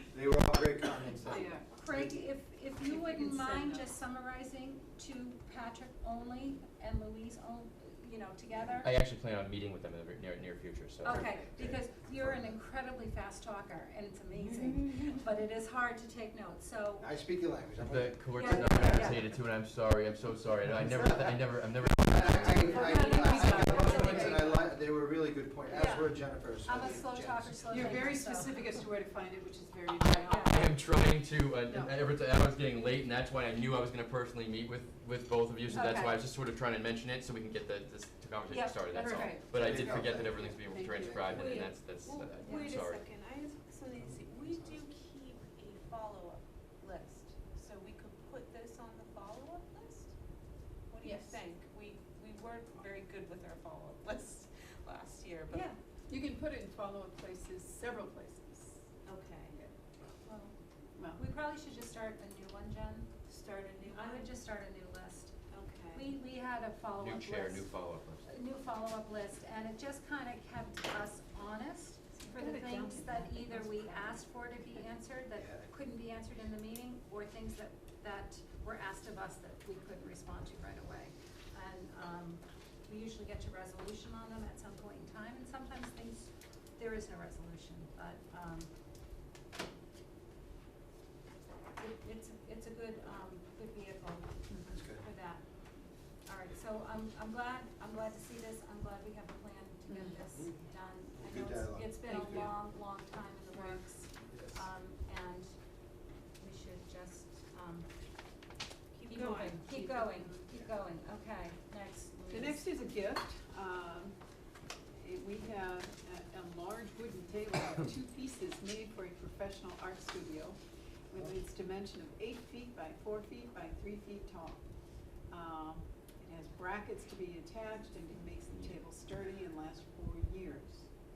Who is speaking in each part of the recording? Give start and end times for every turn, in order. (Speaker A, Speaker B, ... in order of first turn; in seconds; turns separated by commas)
Speaker A: 0.1-2.2, Speaker B: 1.3-8.9, Speaker C: 1.3-1.7, Speaker C: 2.8-3.9, Speaker D: 8.8-11.8, Speaker B: 11.0-17.1, Speaker C: 11.0-11.5, Speaker A: 17.0-19.2, Speaker D: 17.8-24.5, Speaker B: 18.4-19.3, Speaker A: 20.9-28.1, Speaker C: 22.6-24.5, Speaker B: 22.6-24.6, Speaker B: 25.7-28.8, Speaker C: 27.7-30.8, Speaker D: 30.0-43.0, Speaker B: 30.3-30.7, Speaker C: 31.6-31.9, Speaker B: 35.7-36.2, Speaker B: 38.5-39.4, Speaker C: 38.9-39.5, Speaker A: 39.5-41.5, Speaker C: 40.6-41.6, Speaker E: 41.3-50.1, Speaker B: 42.4-42.7, Speaker A: 44.0-44.8, Speaker E: 50.9-55.8, Speaker C: 51.0-51.4, Speaker C: 56.1-59.0, Speaker E: 59.1-59.6, Speaker E: 60.3-60.5, Speaker C: 61.0-61.2, Speaker B: 61.1-63.1, Speaker E: 63.3-64.3, Speaker B: 63.8-65.3, Speaker E: 65.5-66.1, Speaker B: 65.9-88.7, Speaker D: 67.0-68.3, Speaker C: 72.2-74.2, Speaker B: 91.8-95.4, Speaker A: 94.7-95.0, Speaker B: 96.3-105.5, Speaker C: 99.9-100.2, Speaker A: 101.2-102.5, Speaker C: 102.1-102.5, Speaker C: 103.5-103.8, Speaker B: 106.4-107.9, Speaker E: 109.0-110.3, Speaker B: 109.1-112.7, Speaker C: 112.3-114.2, Speaker C: 115.0-120.6, Speaker C: 121.1-124.6, Speaker C: 125.3-130.9